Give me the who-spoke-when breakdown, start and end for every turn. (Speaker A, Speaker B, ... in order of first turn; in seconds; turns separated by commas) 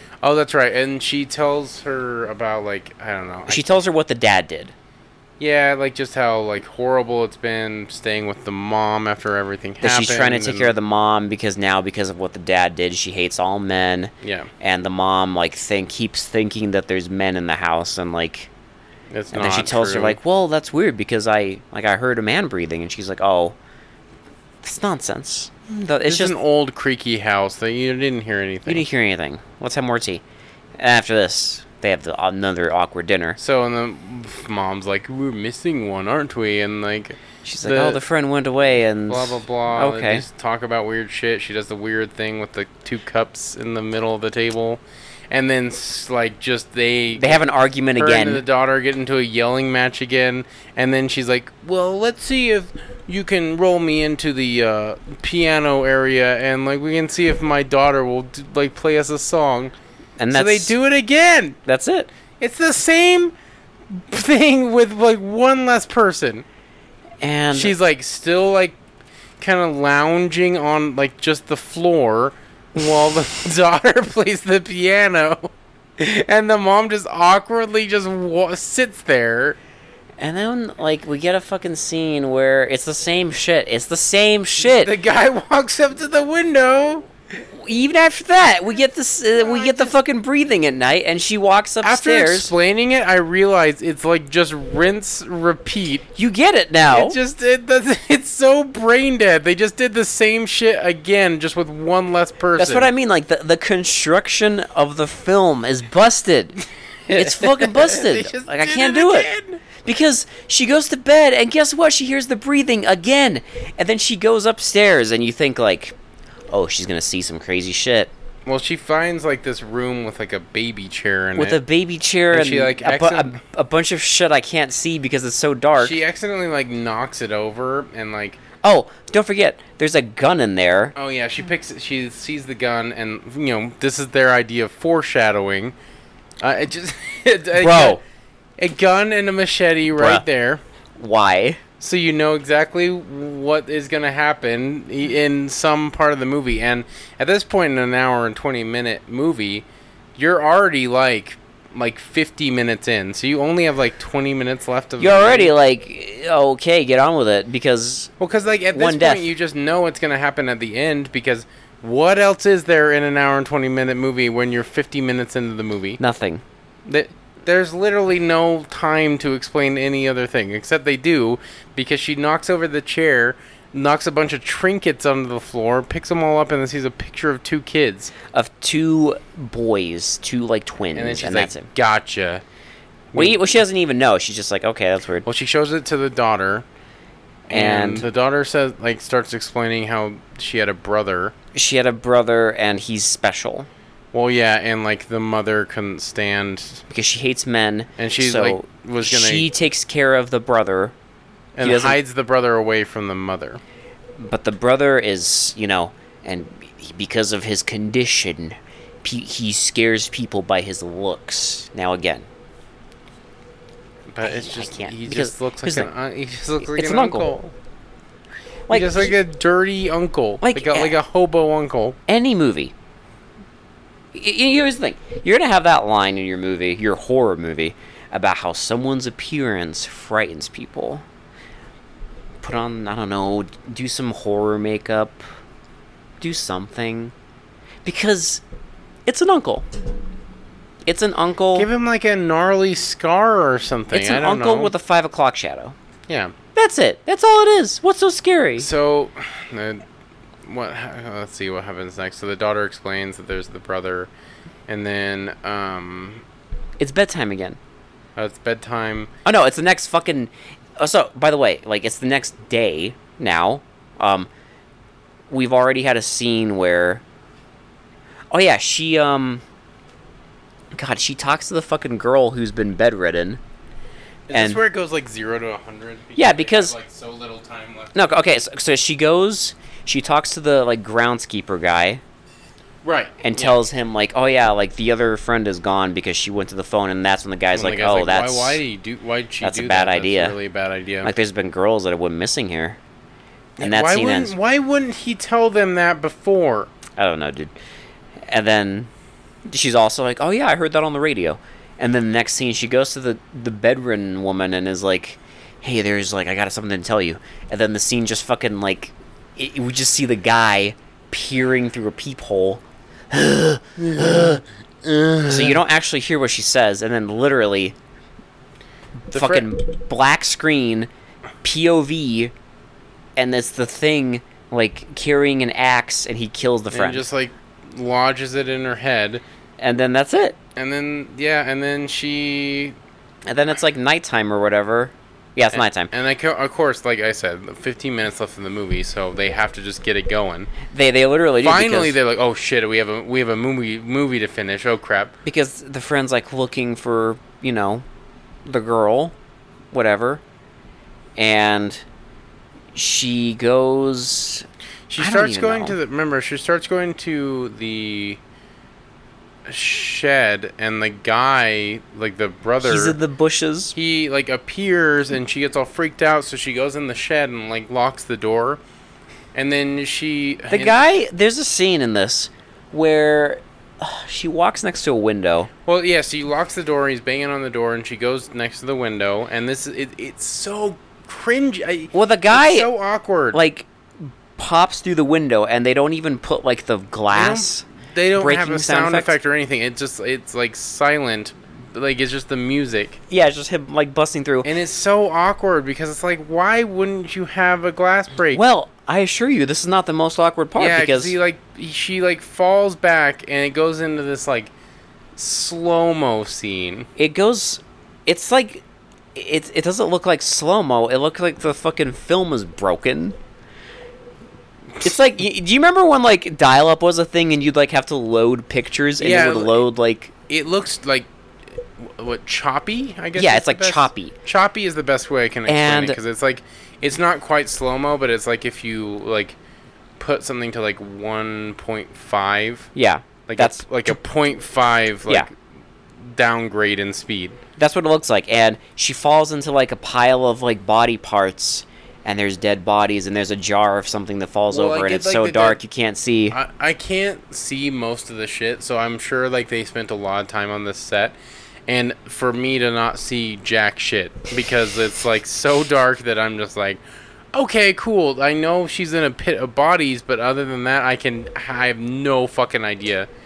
Speaker A: 0.2-3.8, Speaker B: 3.5-4.7, Speaker A: 5.4-10.7, Speaker B: 9.8-18.5, Speaker A: 14.2-14.5, Speaker A: 19.1-20.2, Speaker B: 19.3-23.6, Speaker B: 24.6-26.4, Speaker A: 26.1-28.9, Speaker B: 28.7-30.2, Speaker B: 30.8-33.4, Speaker A: 33.4-38.0, Speaker B: 37.5-40.3, Speaker A: 39.1-59.7, Speaker B: 47.1-48.4, Speaker B: 60.2-60.8, Speaker A: 60.3-61.6, Speaker B: 61.7-62.1, Speaker A: 62.4-63.3, Speaker A: 63.9-66.5, Speaker B: 67.2-67.7, Speaker A: 67.5-68.8, Speaker A: 69.4-79.6, Speaker B: 80.2-84.9, Speaker A: 84.6-87.1, Speaker B: 87.4-92.5, Speaker A: 89.4-90.0, Speaker A: 91.8-96.0, Speaker B: 96.2-97.2, Speaker A: 96.9-102.9, Speaker B: 102.6-116.0, Speaker A: 107.1-109.6, Speaker B: 116.5-118.1, Speaker A: 118.5-121.6, Speaker B: 121.4-126.0, Speaker A: 122.3-123.4, Speaker A: 125.8-128.4, Speaker B: 128.6-130.9, Speaker A: 130.9-135.8, Speaker A: 136.4-138.0, Speaker B: 137.6-138.0, Speaker A: 138.6-140.6, Speaker B: 140.0-140.2, Speaker B: 141.0-141.6, Speaker A: 141.8-149.7, Speaker A: 150.2-155.5, Speaker B: 155.0-158.1, Speaker A: 158.2-166.0, Speaker B: 158.7-159.3, Speaker B: 166.0-166.4, Speaker A: 166.9-178.1, Speaker B: 178.3-181.7, Speaker A: 180.9-182.4, Speaker A: 183.1-183.4, Speaker B: 183.2-185.3, Speaker A: 185.2-186.7, Speaker A: 187.5-191.3, Speaker B: 187.5-188.1, Speaker B: 191.5-193.7, Speaker A: 194.1-196.8, Speaker B: 196.9-200.9, Speaker A: 198.0-199.5, Speaker A: 201.6-203.6, Speaker B: 201.6-202.0, Speaker B: 204.2-212.3, Speaker A: 214.1-217.5, Speaker B: 214.2-215.9, Speaker B: 216.6-217.3, Speaker B: 218.7-219.2, Speaker A: 218.7-222.0, Speaker B: 220.4-221.0, Speaker B: 222.1-222.7, Speaker B: 224.1-231.0, Speaker B: 232.4-235.2, Speaker B: 236.2-237.1, Speaker B: 237.8-238.4, Speaker B: 239.1-239.7, Speaker B: 240.9-241.7, Speaker A: 241.6-244.7, Speaker B: 243.9-245.8, Speaker A: 246.1-246.3, Speaker B: 246.6-248.7, Speaker A: 248.6-249.8, Speaker A: 250.4-254.1, Speaker A: 254.7-256.2, Speaker B: 256.8-257.6, Speaker A: 258.2-259.1, Speaker B: 259.2-264.3, Speaker B: 265.3-267.0, Speaker B: 268.3-269.4, Speaker B: 270.7-273.4, Speaker A: 274.3-278.1, Speaker B: 274.3-274.6, Speaker B: 276.2-276.8, Speaker B: 277.9-282.0, Speaker A: 282.8-283.6, Speaker B: 283.2-288.6, Speaker A: 287.5-291.1, Speaker B: 289.4-290.4, Speaker B: 291.0-292.8, Speaker A: 293.6-296.7, Speaker B: 293.6-294.3, Speaker B: 297.0-297.5, Speaker B: 298.3-298.9, Speaker B: 299.5-314.4, Speaker A: 313.8-315.6, Speaker B: 315.3-317.8, Speaker B: 319.1-320.9, Speaker A: 319.1-319.5, Speaker B: 321.4-322.3, Speaker B: 323.2-327.1, Speaker A: 326.7-329.2, Speaker B: 329.6-330.4, Speaker A: 330.6-332.8, Speaker B: 333.3-335.9, Speaker A: 335.5-340.5, Speaker B: 340.7-342.0, Speaker A: 341.4-345.1, Speaker B: 345.2-347.8, Speaker B: 348.5-349.1, Speaker B: 349.7-350.2, Speaker B: 351.2-351.8, Speaker B: 352.8-354.5, Speaker A: 354.9-358.2, Speaker B: 355.0-355.8, Speaker A: 359.5-363.0, Speaker B: 362.6-363.8, Speaker A: 363.8-368.6, Speaker A: 369.3-370.9, Speaker B: 370.5-375.5, Speaker A: 375.7-383.4, Speaker B: 381.9-382.7, Speaker B: 383.3-387.6, Speaker A: 387.1-393.0, Speaker B: 388.2-389.1, Speaker B: 393.1-394.5, Speaker A: 394.4-398.4, Speaker B: 398.3-401.2, Speaker A: 400.6-404.5, Speaker A: 405.2-406.9, Speaker B: 407.0-408.6, Speaker B: 409.1-413.2, Speaker B: 414.8-420.1, Speaker A: 419.0-419.7, Speaker A: 420.3-429.4, Speaker B: 423.1-424.1, Speaker B: 425.5-426.0, Speaker A: 430.0-432.7, Speaker B: 432.8-434.0, Speaker A: 433.3-435.3, Speaker A: 436.0-437.4, Speaker B: 437.6-446.4, Speaker A: 444.5-445.6, Speaker A: 446.3-451.2, Speaker A: 451.7-456.8, Speaker A: 457.3-463.1